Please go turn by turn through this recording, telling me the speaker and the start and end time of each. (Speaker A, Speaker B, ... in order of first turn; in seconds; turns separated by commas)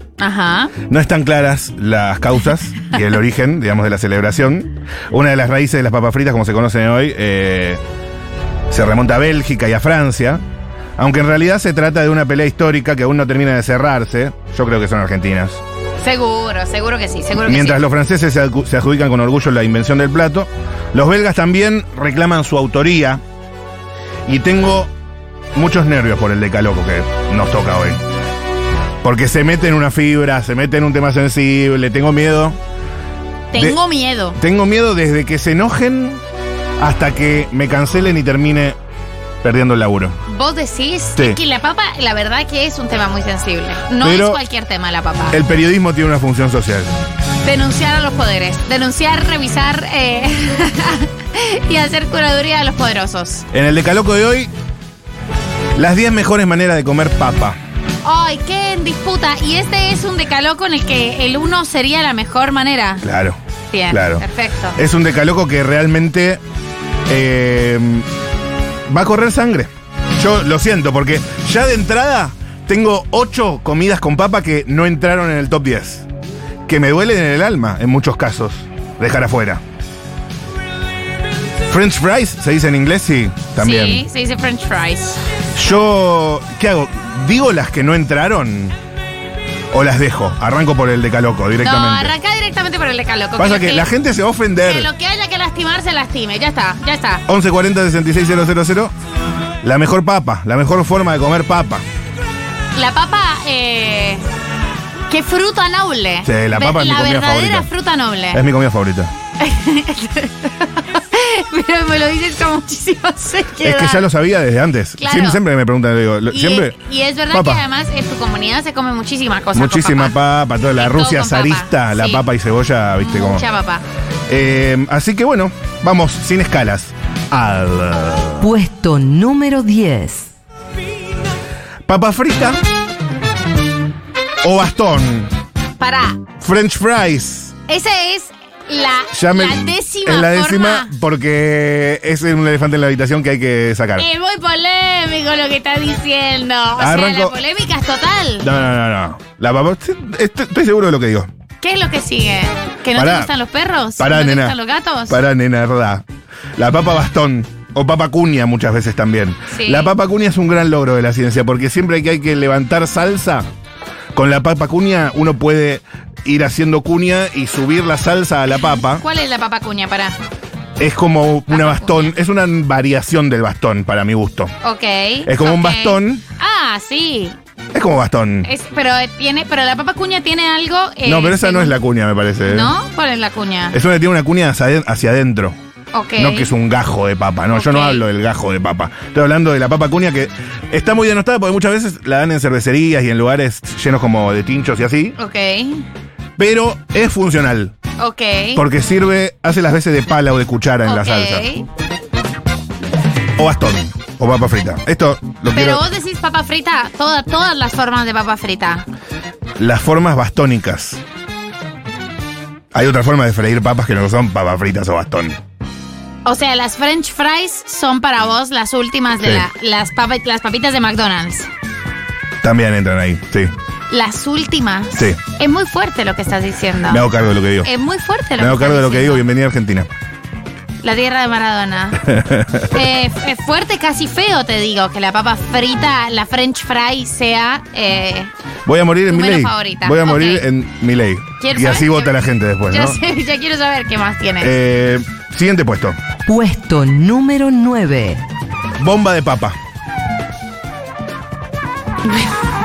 Speaker A: 0.2-0.7, Speaker B: 0.9-7.8, Speaker B: 8.7-10.4, Speaker B: 11.0-15.6, Speaker A: 16.0-17.8, Speaker B: 17.4-23.2, Speaker B: 24.3-24.9, Speaker B: 25.6-28.0, Speaker B: 29.0-32.6, Speaker A: 33.5-34.4, Speaker B: 33.5-33.8, Speaker B: 34.4-36.2, Speaker B: 36.8-38.8, Speaker B: 39.4-40.2, Speaker A: 40.3-45.4, Speaker B: 44.0-44.4, Speaker B: 45.3-46.9, Speaker A: 47.4-53.5, Speaker B: 53.5-54.5, Speaker B: 55.8-57.6, Speaker A: 58.0-63.0, Speaker B: 63.0-64.2, Speaker A: 63.7-64.8, Speaker B: 64.8-66.4, Speaker B: 67.1-68.1, Speaker B: 68.9-76.1, Speaker B: 76.7-79.6, Speaker B: 81.7-84.0, Speaker A: 83.6-85.2, Speaker B: 85.5-88.8, Speaker B: 89.7-92.1, Speaker A: 91.6-93.9, Speaker B: 93.4-94.9, Speaker A: 94.6-97.2, Speaker B: 97.3-98.9, Speaker B: 99.6-101.8, Speaker A: 102.8-104.2, Speaker A: 105.1-108.4, Speaker B: 106.2-107.7, Speaker B: 108.3-109.1, Speaker A: 109.4-114.1, Speaker B: 113.6-116.8, Speaker A: 115.0-115.4, Speaker A: 116.3-120.2, Speaker B: 117.3-117.6, Speaker B: 119.5-123.5, Speaker A: 120.7-122.3, Speaker A: 123.0-123.8, Speaker B: 124.3-128.5, Speaker C: 128.4-130.3, Speaker B: 131.9-132.6, Speaker B: 134.4-135.3, Speaker A: 135.8-136.2, Speaker B: 136.4-137.6, Speaker A: 137.7-140.9, Speaker B: 139.1-144.1, Speaker A: 144.0-148.5, Speaker B: 146.8-147.3, Speaker B: 148.4-151.3, Speaker A: 151.6-155.2, Speaker B: 152.9-153.3, Speaker B: 154.0-163.5, Speaker A: 159.5-159.9, Speaker B: 164.1-169.0, Speaker A: 168.6-170.2, Speaker B: 170.8-174.5, Speaker A: 171.5-172.2, Speaker A: 174.6-177.4, Speaker B: 175.3-176.2, Speaker B: 177.7-178.5, Speaker A: 178.4-181.8, Speaker B: 181.1-182.7, Speaker A: 182.4-183.8, Speaker B: 183.7-185.6, Speaker A: 185.9-186.5, Speaker B: 186.2-195.2, Speaker A: 187.5-188.1, Speaker A: 195.2-195.9, Speaker B: 196.4-197.8, Speaker A: 198.0-198.6, Speaker B: 198.5-201.5, Speaker A: 200.8-201.7, Speaker B: 203.4-205.8, Speaker A: 205.5-208.9, Speaker B: 209.6-211.0, Speaker B: 212.7-215.4, Speaker A: 216.2-221.5, Speaker B: 222.4-223.5, Speaker A: 223.9-227.1, Speaker B: 224.9-225.2, Speaker B: 226.9-227.7, Speaker A: 227.6-229.3, Speaker B: 228.4-229.9, Speaker A: 230.8-232.0, Speaker B: 232.0-232.8, Speaker A: 232.7-238.3, Speaker B: 238.7-243.0, Speaker A: 239.1-240.5, Speaker A: 241.4-242.2, Speaker A: 242.7-244.6, Speaker B: 244.4-246.0, Speaker C: 246.3-248.2, Speaker B: 248.8-249.6